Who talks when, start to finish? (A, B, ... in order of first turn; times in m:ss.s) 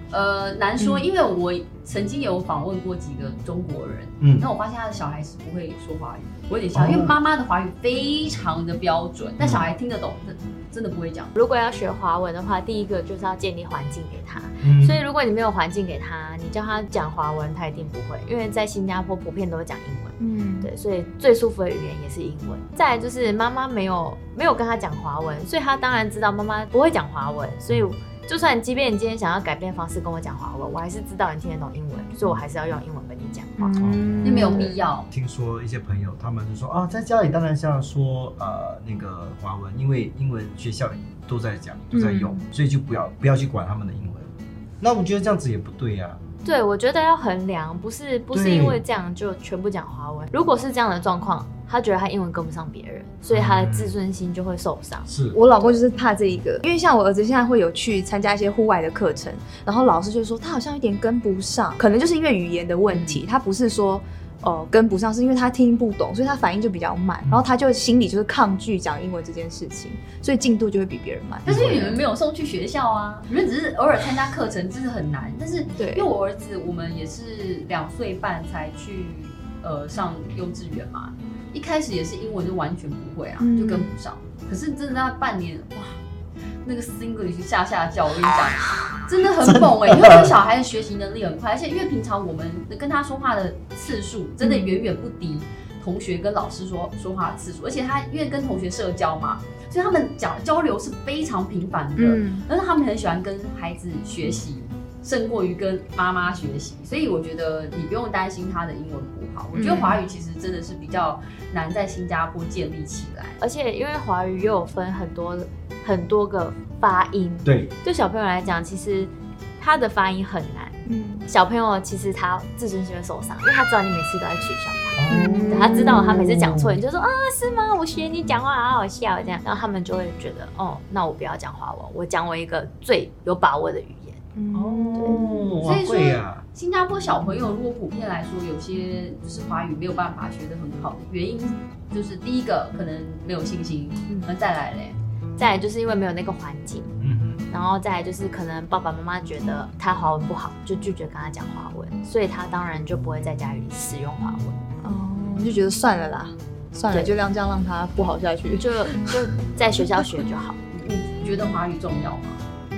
0:00.1-0:11.3 A
0:04.2-0:04.4 B
0:06.7-0:07.2 B
0:09.4-0:09.7 B
0:11.3-0:33.8 C
0:14.6-0:15.0 B
0:20.2-0:20.7 D
0:33.6-0:34.8 D
0:33.8-0:34.4 B
0:34.2-0:35.1 A
0:35.1-0:46.2 B
0:41.9-0:42.4 D
0:46.4-0:55.1 C
0:48.3-0:48.8 B
0:53.3-0:54.0 B
0:55.0-0:55.4 B
0:55.3-1:11.6 D
1:02.9-1:03.2 A
1:11.4-1:12.0 B
1:11.4-1:26.0 A
1:15.8-1:16.1 D
1:23.4-1:23.9 D
1:26.6-1:53.4 A
1:29.4-1:30.3 B
1:34.4-1:34.8 D
1:42.0-1:42.4 D
1:49.5-1:50.0 D
1:53.4-2:14.2 C
1:57.4-1:57.7 B
2:00.8-2:01.3 D
2:05.0-2:06.8 B
2:05.1-2:06.0 D
2:14.4-2:15.4 D
2:14.5-2:16.4 B
2:14.9-2:15.2 C
2:15.6-2:25.0 A
2:25.4-2:26.9 C
2:27.0-2:27.4 B
2:27.5-2:34.6 C
2:34.8-2:39.1 D
2:38.5-2:40.6 C
2:40.7-2:42.4 A